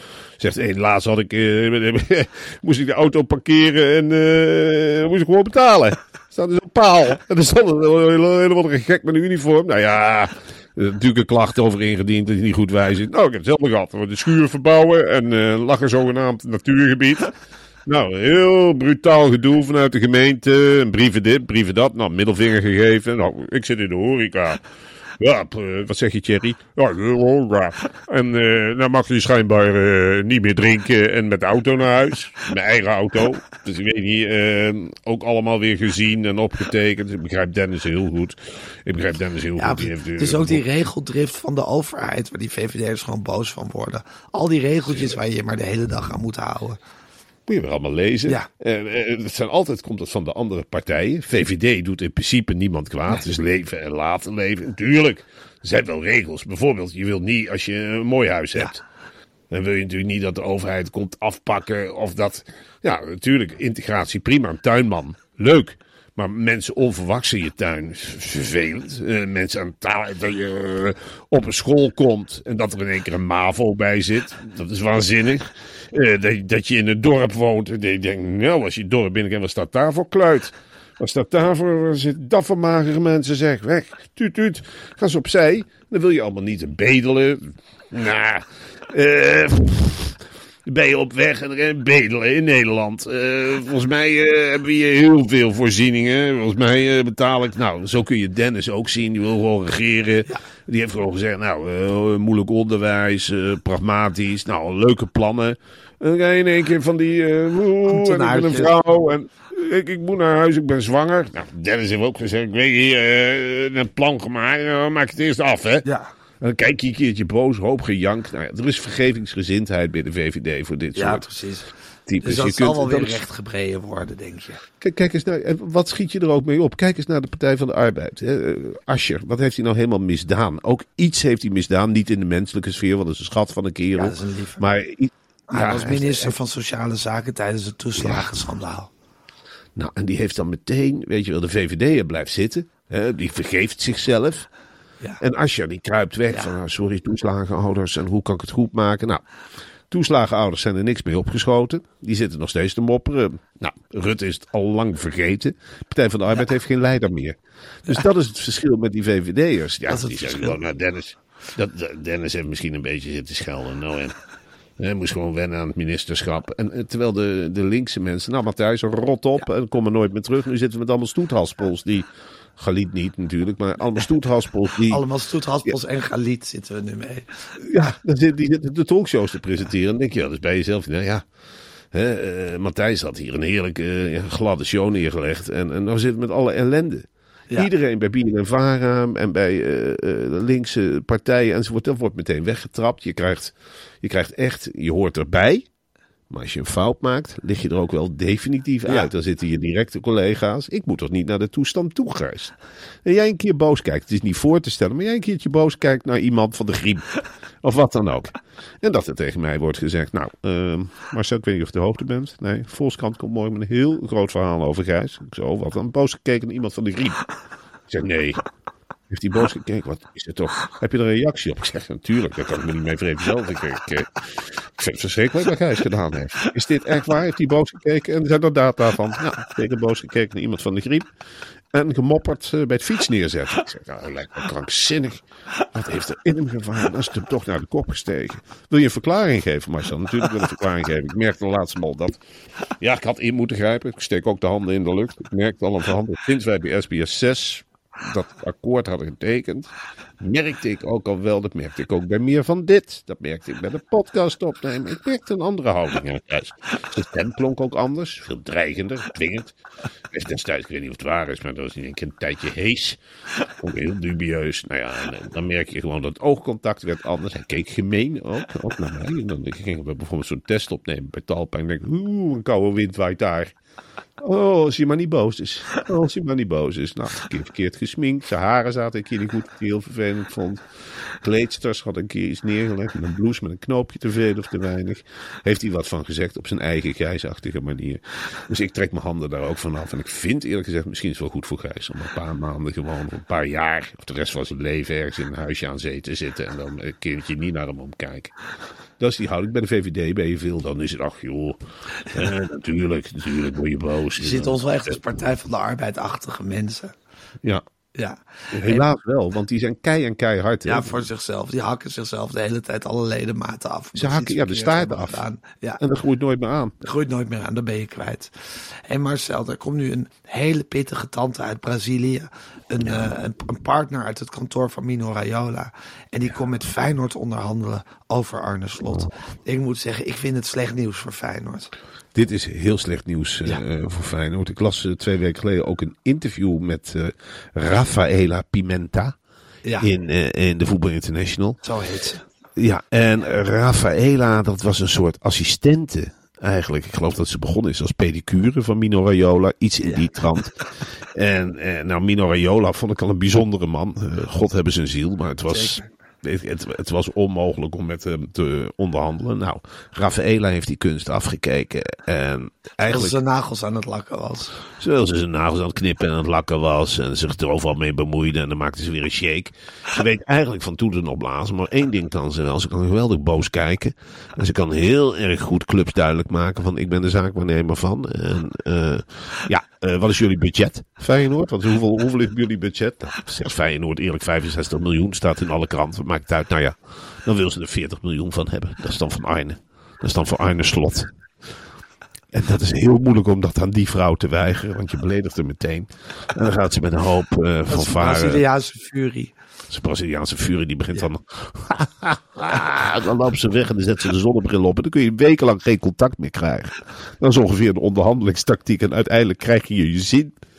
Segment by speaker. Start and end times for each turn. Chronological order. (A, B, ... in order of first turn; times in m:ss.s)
0:00.4-0:17.3 A
0:17.8-0:24.6 A
0:25.2-0:40.6 A
0:39.6-0:46.8 B
0:44.9-0:45.2 A
0:47.5-0:58.8 A
0:59.5-1:55.8 A
1:47.9-1:48.7 B
1:55.8-1:56.1 B
1:56.4-2:01.3 A
2:00.9-2:01.7 B
2:02.1-2:03.2 A
2:02.2-2:04.6 B
2:04.8-2:16.4 A
2:14.0-2:14.6 B
2:15.5-2:18.9 B
2:18.0-2:18.4 A
2:19.7-2:24.5 A
2:25.2-2:29.2 A
2:29.9-2:44.2 A
2:39.9-2:40.6 B
2:44.8-2:55.0 A
2:54.9-2:57.3 B
2:57.6-3:01.2 A
3:01.9-3:15.6 A
3:16.3-3:37.2 A
3:37.9-3:38.4 A
3:39.1-3:51.1 A
3:51.7-4:02.2 A
4:02.8-4:19.6 A
4:20.1-4:23.0 A
4:23.6-4:33.5 A
4:34.2-4:40.6 A
4:41.2-4:58.3 A
4:59.0-5:01.6 A
5:02.1-5:05.0 A
5:04.2-5:06.9 B
5:07.9-5:08.8 B
5:08.5-5:11.0 A
5:10.6-5:15.8 B
5:14.0-5:15.2 A
5:15.8-5:16.7 A
5:16.8-5:31.7 B
5:22.8-5:23.1 A
5:32.1-5:39.2 A
5:39.8-5:41.6 A
5:41.6-5:42.2 B
5:42.6-6:03.2 A
5:55.5-5:55.8 B
6:02.9-6:04.5 B
6:04.7-6:31.1 A
6:32.3-6:38.4 A
6:37.7-6:39.3 B
6:39.7-6:50.4 A